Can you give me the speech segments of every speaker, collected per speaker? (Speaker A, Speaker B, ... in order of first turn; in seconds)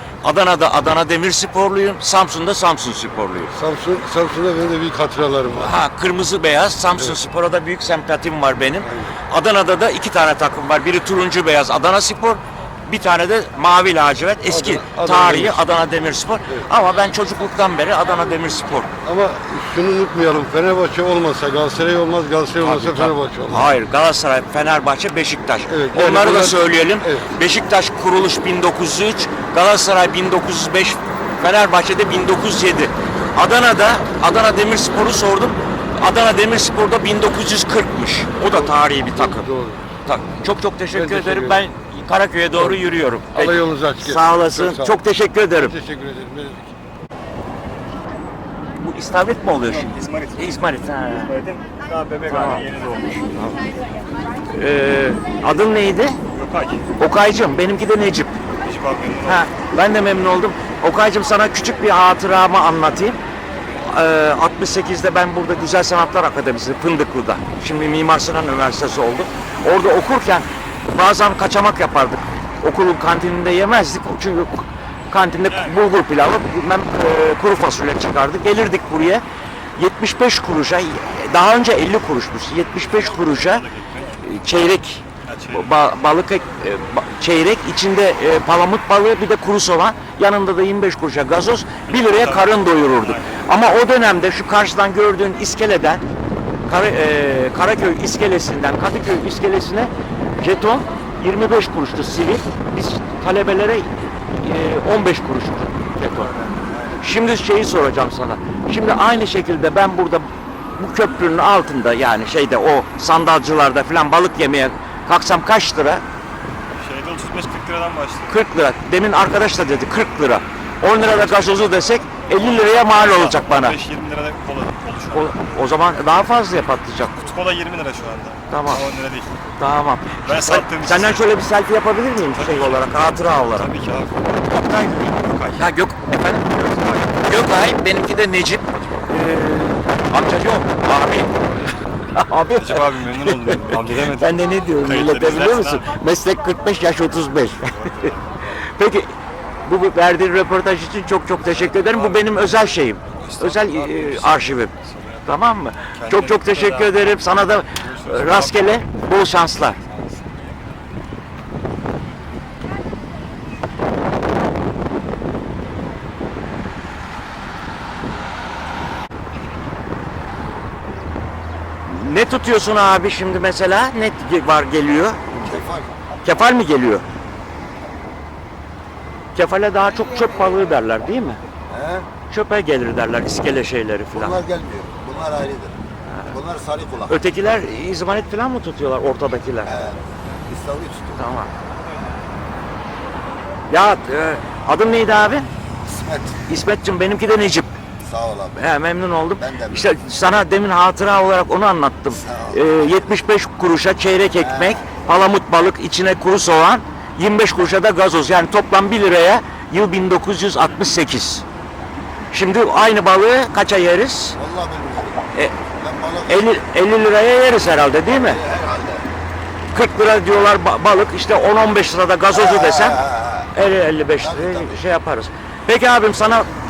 Speaker A: 0.2-3.5, 5.5-18.9, 22.6-39.5, 40.0-45.7, 48.8-51.3, 52.3-52.6, 54.5-56.2, 57.0-58.4, 59.2-63.2, 63.8-79.2, 79.8-83.7, 84.2-96.0, 96.7-106.3, 107.0-116.0, 118.3-123.8, 125.1-127.3, 128.5-128.8, 129.6-133.7, 135.6-136.5, 137.2-141.6, 142.1-149.1, 149.7-154.7, 155.3-159.8, 171.9-175.2, 176.2-177.0, 179.3-181.4, 182.3-184.4, 186.1-186.4, 187.1-189.8, 191.2-191.5, 193.7-195.5, 196.5-197.8, 198.5-211.4, 212.3-214.4, 216.2-218.4, 219.7-226.5
Speaker B: 3.5-5.7, 14.5-15.6, 19.0-23.6, 25.7-27.3, 38.5-39.9, 40.9-41.6, 43.3-45.0, 45.6-46.7, 175.3-175.9, 181.7-182.1, 184.1-185.8, 186.3-187.1, 189.7-191.2, 195.8-196.4, 198.0-198.6, 199.4-199.9, 202.1-202.6, 204.4-204.8, 214.4-215.2, 215.8-216.4, 218.2-219.1, 222.3-223.5, 224.2-224.8
Speaker C: 49.6-53.3, 56.3-56.9, 58.6-59.5, 75.5-75.8, 82.8-84.2, 85.2-85.7, 91.9-93.5, 106.1-107.0, 116.7-118.4, 121.0-125.5, 127.2-129.4, 130.2-131.3, 132.3-135.7, 136.4-137.6, 142.6-145.9, 147.7-148.5, 151.4-155.3, 155.9-156.9, 157.8-160.6